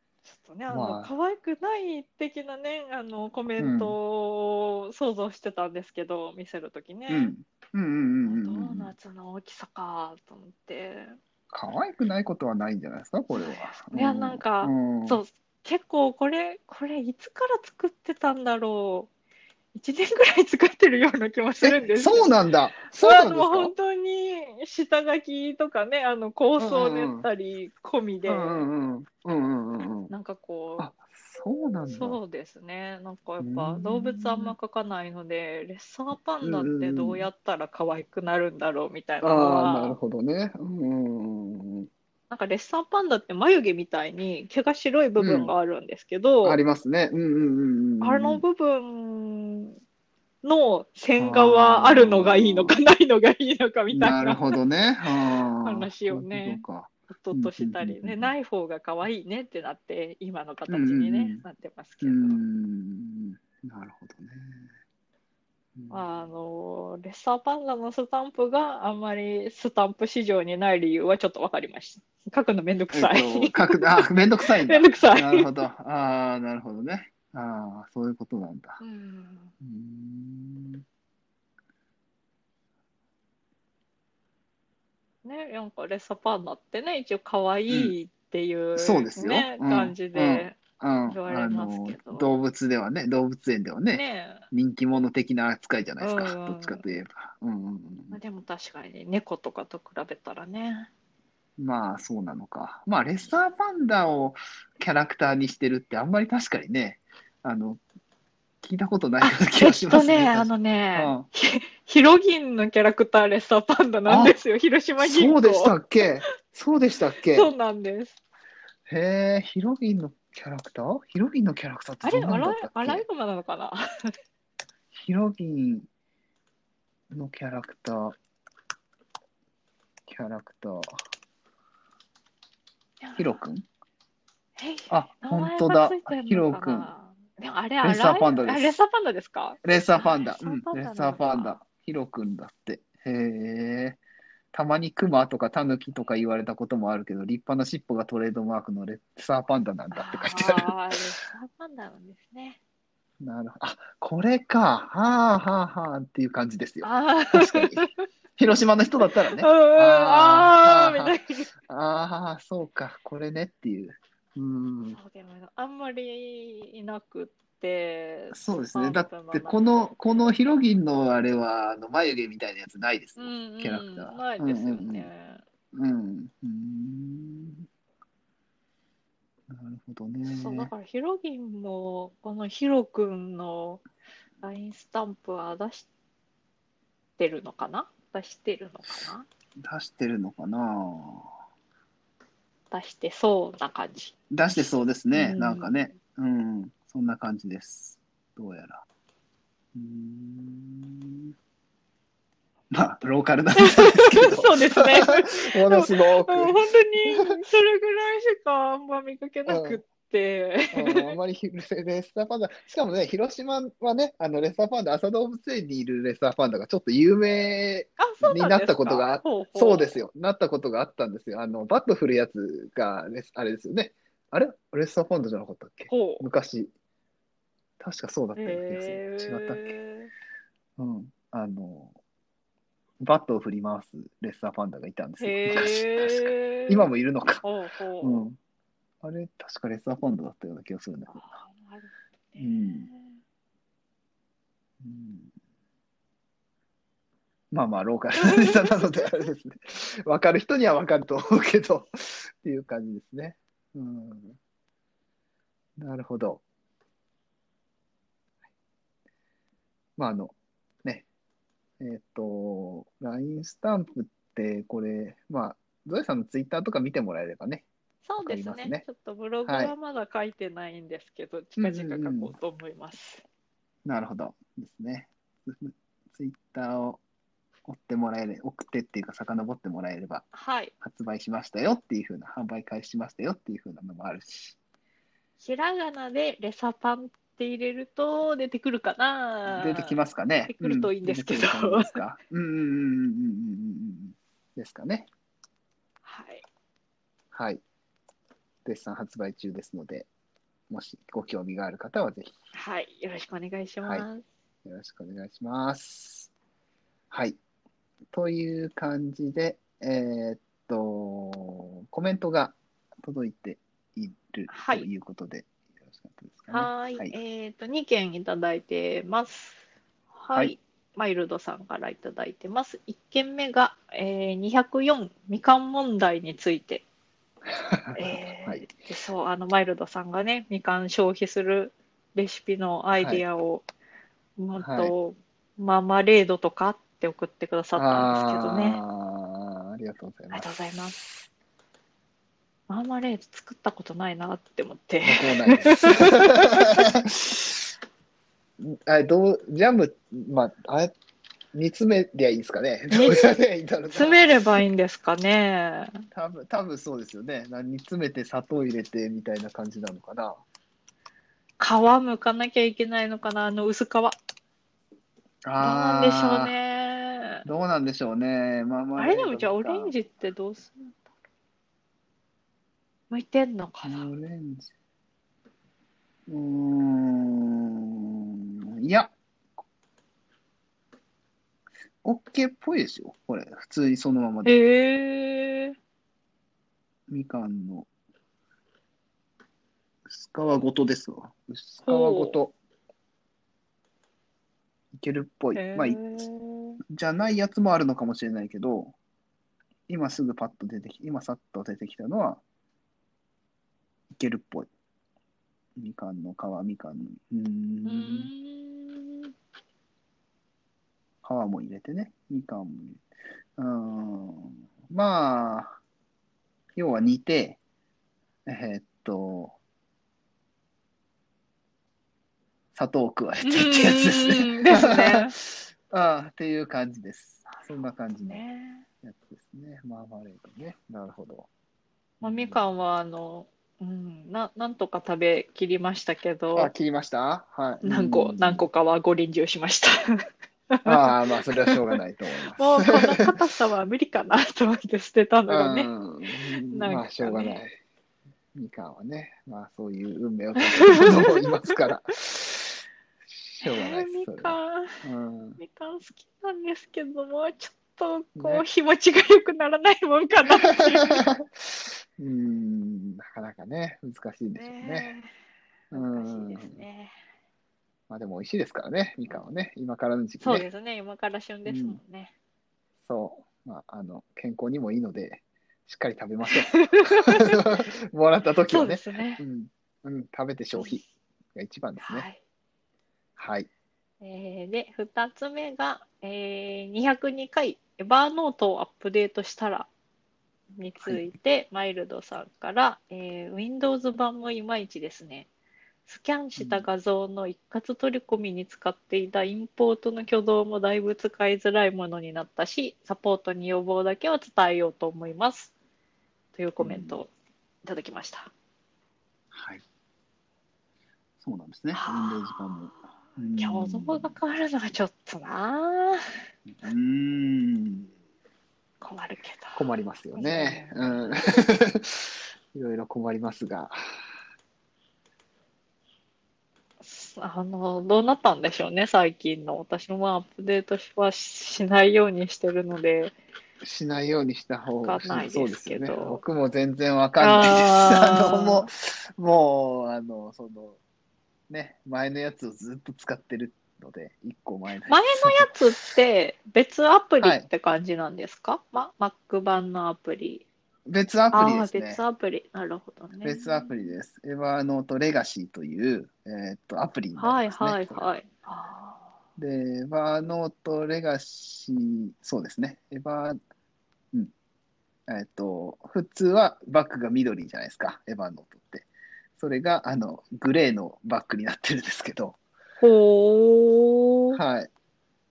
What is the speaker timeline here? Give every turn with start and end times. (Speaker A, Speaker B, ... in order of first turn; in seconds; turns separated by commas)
Speaker A: 0.2-7.3, Speaker B: 0.7-1.1, Speaker B: 3.6-4.0, Speaker B: 7.1-8.9, Speaker A: 8.2-11.2, Speaker B: 11.5-15.2, Speaker A: 13.3-19.1, Speaker A: 19.7-22.3, Speaker B: 21.6-23.7, Speaker A: 22.9-28.6, Speaker B: 26.6-27.3, Speaker B: 28.3-30.1, Speaker A: 30.1-30.9, Speaker B: 30.8-32.2, Speaker A: 31.9-40.0, Speaker B: 33.4-34.5, Speaker B: 36.4-37.3, Speaker B: 39.2-41.9, Speaker A: 42.3-46.6, Speaker B: 45.2-45.5, Speaker B: 46.4-48.4, Speaker A: 48.0-49.7, Speaker A: 50.4-54.6, Speaker B: 51.2-52.8, Speaker B: 53.9-58.3, Speaker A: 55.6-62.4, Speaker B: 60.7-61.4, Speaker B: 62.0-64.7, Speaker B: 65.8-66.0, Speaker A: 65.9-75.5, Speaker B: 72.9-78.8, Speaker A: 78.8-79.5, Speaker B: 79.6-80.8, Speaker A: 85.2-92.3, Speaker B: 88.8-98.2, Speaker A: 93.9-94.4, Speaker A: 96.0-96.8, Speaker A: 98.1-100.9, Speaker B: 101.6-107.8, Speaker B: 108.6-111.3, Speaker A: 109.2-115.8, Speaker B: 114.1-114.4, Speaker B: 115.0-117.5, Speaker A: 117.3-118.2, Speaker B: 118.9-123.0, Speaker A: 122.0-124.1, Speaker B: 124.9-125.9, Speaker B: 127.1-128.2, Speaker B: 130.1-130.9, Speaker A: 133.0-133.4, Speaker B: 133.2-133.7, Speaker A: 134.6-141.6, Speaker B: 134.9-136.9, Speaker B: 137.8-138.8, Speaker B: 139.6-144.0, Speaker B: 144.5-150.8, Speaker A: 149.9-152.6, Speaker B: 153.2-165.0, Speaker A: 156.8-157.9, Speaker A: 159.0-161.5, Speaker A: 164.9-170.3, Speaker B: 168.3-175.1, Speaker A: 173.2-175.4, Speaker B: 175.7-177.7, Speaker B: 179.5-180.7, Speaker A: 180.3-183.8, Speaker A: 184.4-185.9, Speaker A: 187.2-189.2, Speaker B: 189.6-191.3, Speaker A: 192.7-194.1, Speaker B: 194.3-198.8, Speaker A: 195.1-195.7, Speaker B: 199.7-201.3, Speaker B: 202.7-207.4, Speaker A: 203.6-211.2, Speaker B: 209.4-209.8, Speaker B: 210.7-226.7, Speaker A: 218.0-220.0, Speaker A: 225.9-226.2, Speaker B: 227.8-229.8, Speaker A: 228.3-230.1, Speaker B: 230.8-231.9, Speaker B: 233.0-237.4, Speaker A: 235.2-236.9, Speaker A: 237.4-238.3, Speaker B: 238.0-238.4, Speaker B: 239.0-241.3, Speaker A: 241.1-243.2, Speaker B: 242.4-242.9, Speaker B: 244.8-245.3, Speaker B: 247.5-254.4, Speaker A: 248.2-249.1, Speaker B: 255.8-256.4, Speaker B: 260.0-261.0, Speaker B: 261.8-267.6, Speaker A: 268.0-273.2, Speaker B: 268.2-268.9, Speaker B: 269.4-269.7, Speaker B: 271.6-272.3, Speaker B: 273.8-277.0, Speaker B: 277.6-280.3, Speaker A: 280.3-280.7, Speaker B: 280.8-284.6, Speaker A: 285.4-292.0, Speaker B: 289.5-295.1, Speaker A: 296.0-296.4, Speaker B: 297.3-297.6, Speaker B: 298.6-300.1, Speaker B: 300.7-302.3, Speaker A: 302.5-304.2, Speaker B: 304.6-306.3, Speaker B: 307.1-307.4, Speaker B: 308.1-317.1, Speaker A: 314.5-314.9, Speaker A: 316.5-319.6, Speaker A: 320.1-326.8, Speaker B: 327.5-328.7, Speaker A: 327.9-333.6, Speaker A: 334.4-338.8, Speaker B: 334.6-334.9, Speaker B: 337.8-340.9, Speaker A: 340.3-341.3, Speaker A: 342.7-346.8, Speaker B: 345.0-347.6, Speaker B: 348.6-350.9, Speaker B: 351.5-354.3, Speaker A: 352.9-353.3, Speaker A: 353.9-356.0, Speaker B: 356.1-360.4, Speaker A: 361.6-364.1, Speaker B: 365.4-366.5, Speaker A: 365.6-367.4, Speaker B: 367.4-369.9, Speaker A: 369.0-371.0, Speaker A: 373.1-374.1, Speaker B: 373.8-374.7, Speaker B: 376.3-379.1, Speaker B: 382.0-384.5, Speaker A: 384.4-385.8, Speaker B: 387.1-387.9, Speaker B: 390.1-392.5, Speaker A: 391.8-392.4, Speaker B: 394.9-396.0, Speaker A: 395.5-396.8, Speaker B: 396.9-398.9, Speaker B: 399.9-402.4, Speaker B: 404.1-404.7, Speaker B: 405.8-408.3, Speaker A: 407.8-409.3, Speaker B: 411.2-413.0, Speaker B: 413.6-415.8, Speaker B: 416.7-417.6, Speaker B: 418.4-419.6, Speaker B: 422.7-428.4, Speaker A: 423.4-425.3, Speaker A: 428.3-428.9, Speaker B: 429.0-431.5, Speaker B: 432.2-432.6, Speaker A: 432.2-436.7, Speaker B: 436.5-438.7, Speaker A: 437.8-441.1, Speaker B: 440.8-443.4, Speaker A: 442.5-445.9, Speaker B: 445.5-447.8, Speaker A: 446.7-447.6, Speaker B: 448.5-455.6, Speaker A: 450.8-451.7, Speaker A: 453.6-455.0, Speaker A: 455.6-461.2, Speaker B: 458.3-458.6, Speaker B: 460.5-465.1, Speaker A: 464.6-465.3, Speaker B: 465.9-466.8, Speaker A: 465.9-467.1, Speaker B: 468.1-470.7, Speaker A: 470.4-472.3, Speaker B: 471.6-472.0, Speaker B: 473.1-481.0, Speaker A: 476.5-477.6, Speaker A: 478.7-479.4, Speaker B: 481.5-482.3, Speaker A: 482.0-482.4, Speaker B: 483.4-483.7, Speaker A: 484.2-489.9, Speaker A: 490.8-495.5, Speaker B: 491.0-491.3, Speaker A: 496.1-505.7, Speaker B: 496.6-496.9, Speaker A: 506.5-507.3, Speaker B: 506.8-507.2, Speaker A: 507.8-508.5, Speaker B: 509.5-509.8, Speaker B: 511.4-514.4, Speaker A: 511.9-513.0, Speaker A: 513.6-516.2, Speaker B: 516.7-518.1, Speaker A: 519.0-519.8, Speaker B: 519.7-524.0, Speaker A: 520.4-521.5, Speaker A: 527.0-533.3, Speaker B: 533.8-541.0, Speaker A: 535.0-536.4, Speaker A: 537.4-538.9, Speaker B: 541.7-545.8, Speaker A: 545.1-550.6, Speaker B: 547.4-547.7, Speaker B: 551.0-552.2, Speaker A: 551.5-554.1, Speaker B: 553.4-558.3, Speaker A: 557.4-559.3, Speaker B: 559.6-563.6, Speaker B: 565.3-572.6, Speaker A: 573.0-574.6, Speaker B: 574.5-574.9